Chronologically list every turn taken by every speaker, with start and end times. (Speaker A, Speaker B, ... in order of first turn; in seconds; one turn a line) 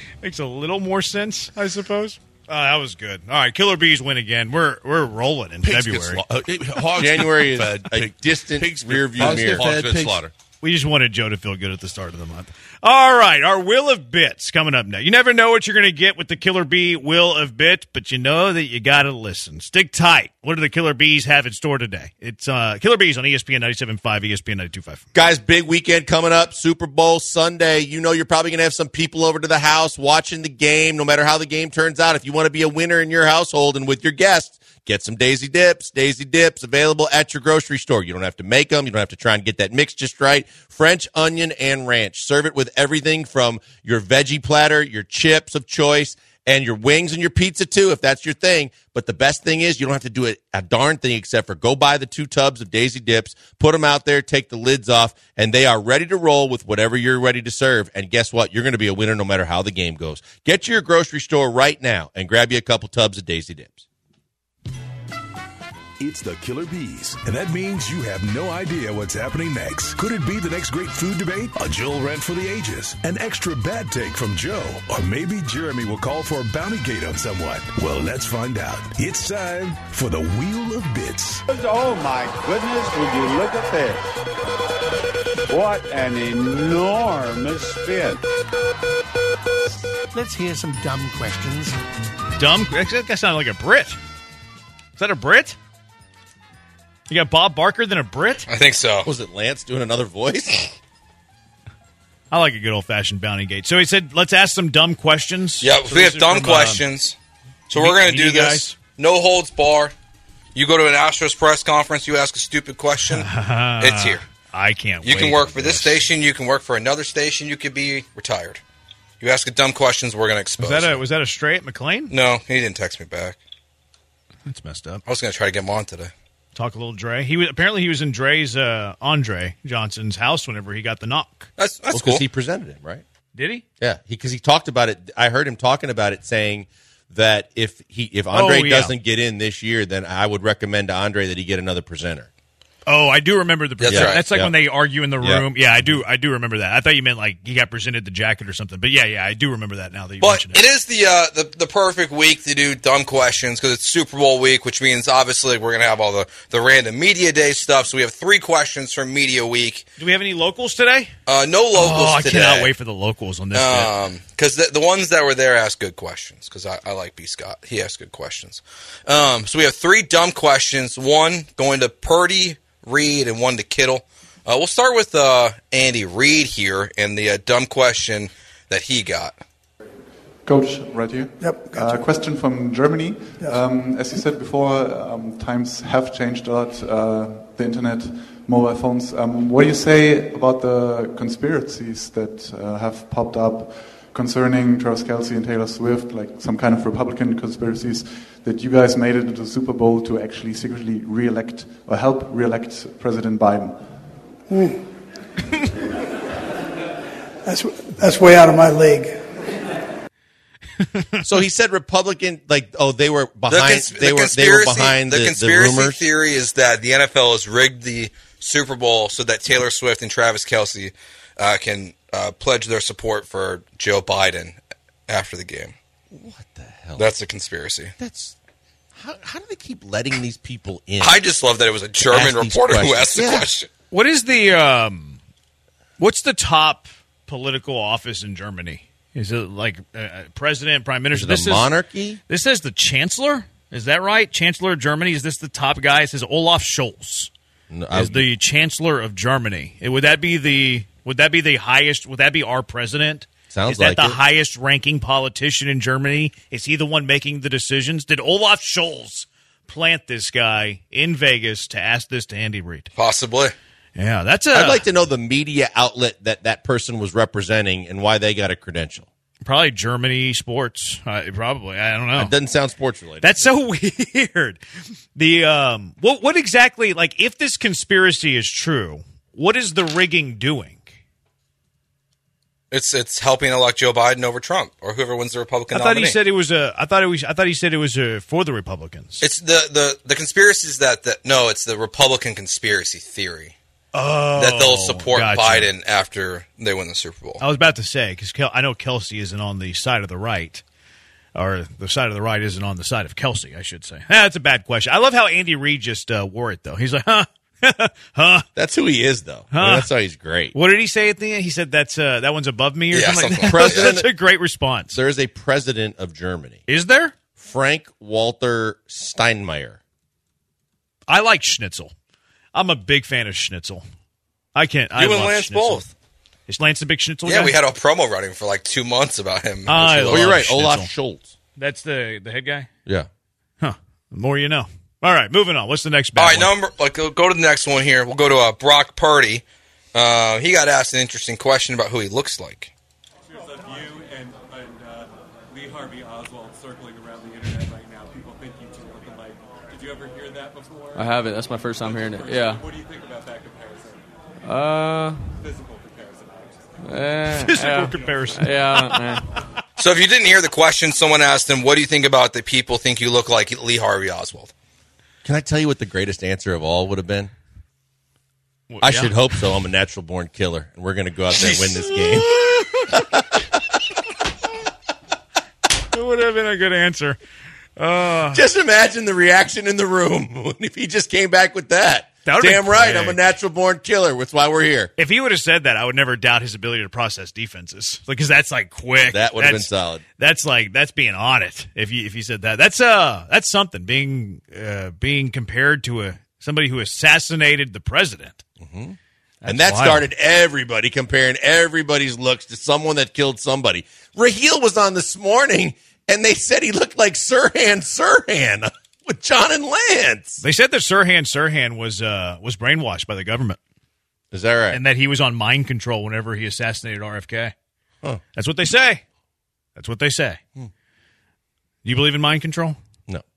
Speaker A: 0.2-6.2
Speaker B: 5.6-10.3
Speaker C: 7.0-9.7
Speaker D: 9.2-10.2
Speaker A: 10.6-25.0
Speaker C: 25.1-63.9
Speaker E: 66.0-81.4
Speaker F: 81.5-84.0
Speaker F: 85.5-88.2
Speaker D: 90.1-91.7
Speaker A: 92.4-94.0
Speaker A: 95.0-95.6
Speaker A: 97.1-98.5
Speaker G: 98.5-99.1
Speaker C: 99.0-100.7
Speaker A: 102.3-106.8
Speaker G: 105.6-107.2
Speaker A: 107.7-108.8
Speaker G: 107.7-109.9
Speaker G: 110.5-113.3
Speaker A: 113.1-116.0
Speaker G: 113.8-114.2
Speaker G: 115.0-118.6
Speaker G: 119.2-121.0
Speaker A: 120.6-122.1
Speaker G: 122.1-123.4
Speaker A: 124.5-125.0
Speaker G: 125.0-126.1
Speaker A: 126.5-131.5
Speaker G: 131.6-132.2
Speaker C: 131.9-133.0
Speaker A: 133.3-133.6
Speaker C: 133.8-142.3
Speaker A: 138.3-138.9
Speaker A: 142.8-150.6
Speaker G: 143.8-144.2
Speaker C: 143.9-144.5
Speaker C: 145.2-146.0
Speaker G: 150.2-159.9
Speaker A: 160.0-161.1
Speaker G: 161.3-162.7
Speaker A: 161.7-163.9
Speaker G: 163.5-179.4
Speaker H: 180.4-203.9
Speaker I: 181.4-182.0
Speaker I: 204.5-204.8
Speaker I: 207.4-209.2
Speaker A: 210.9-211.2
Speaker C: 211.2-216.0
Speaker G: 213.5-225.7
Speaker C: 226.1-227.1
Speaker G: 226.9-227.9
Speaker C: 228.0-228.3
Speaker C: 228.9-231.2
Speaker G: 231.0-233.7
Speaker C: 232.0-233.5
Speaker A: 233.9-235.2
Speaker A: 236.0-241.7
Speaker C: 241.1-242.2
Speaker A: 242.3-247.3
Speaker C: 247.7-248.3
Speaker A: 247.9-262.9
Speaker C: 253.5-254.2
Speaker G: 262.9-263.5
Speaker A: 263.9-264.8
Speaker C: 264.5-269.1
Speaker A: 269.4-272.3
Speaker C: 272.1-273.5
Speaker A: 273.2-274.6
Speaker A: 275.1-280.9
Speaker G: 282.7-286.2
Speaker A: 285.7-289.2
Speaker G: 289.2-293.5
Speaker A: 293.9-295.7
Speaker G: 294.4-297.4
Speaker A: 297.4-300.6
Speaker A: 301.3-308.4
Speaker C: 308.6-310.5
Speaker A: 309.5-309.9
Speaker A: 310.5-315.0
Speaker G: 312.9-313.9
Speaker C: 313.2-314.1
Speaker C: 314.9-316.6
Speaker A: 316.7-317.1
Speaker C: 317.4-319.8
Speaker A: 321.1-321.9
Speaker A: 322.5-323.8
Speaker A: 324.5-325.9
Speaker G: 324.9-325.9
Speaker A: 326.5-327.6
Speaker G: 327.2-330.3
Speaker A: 329.7-330.9
Speaker C: 330.1-331.3
Speaker A: 331.6-332.7
Speaker A: 333.6-336.5
Speaker G: 336.2-339.4
Speaker G: 339.9-342.7
Speaker J: 343.3-354.0
Speaker K: 350.9-352.6
Speaker K: 354.4-355.2
Speaker J: 355.4-357.1
Speaker K: 356.8-359.2
Speaker A: 357.3-359.0
Speaker J: 357.9-358.2
Speaker G: 359.8-364.5
Speaker C: 365.2-367.3
Speaker A: 368.7-369.1
Speaker C: 368.8-372.3
Speaker G: 371.3-372.2
Speaker A: 372.3-373.0
Speaker A: 375.9-377.2
Speaker A: 377.8-378.4
Speaker C: 378.3-384.9
Speaker A: 382.2-383.2
Speaker A: 385.0-398.4
Speaker C: 389.1-390.0
Speaker C: 398.6-410.4
Speaker A: 399.4-400.1
Speaker A: 410.4-413.6
Speaker C: 414.3-414.8
Speaker A: 414.7-417.5
Speaker A: 418.3-419.0
Speaker A: 419.8-420.4
Speaker A: 421.8-422.8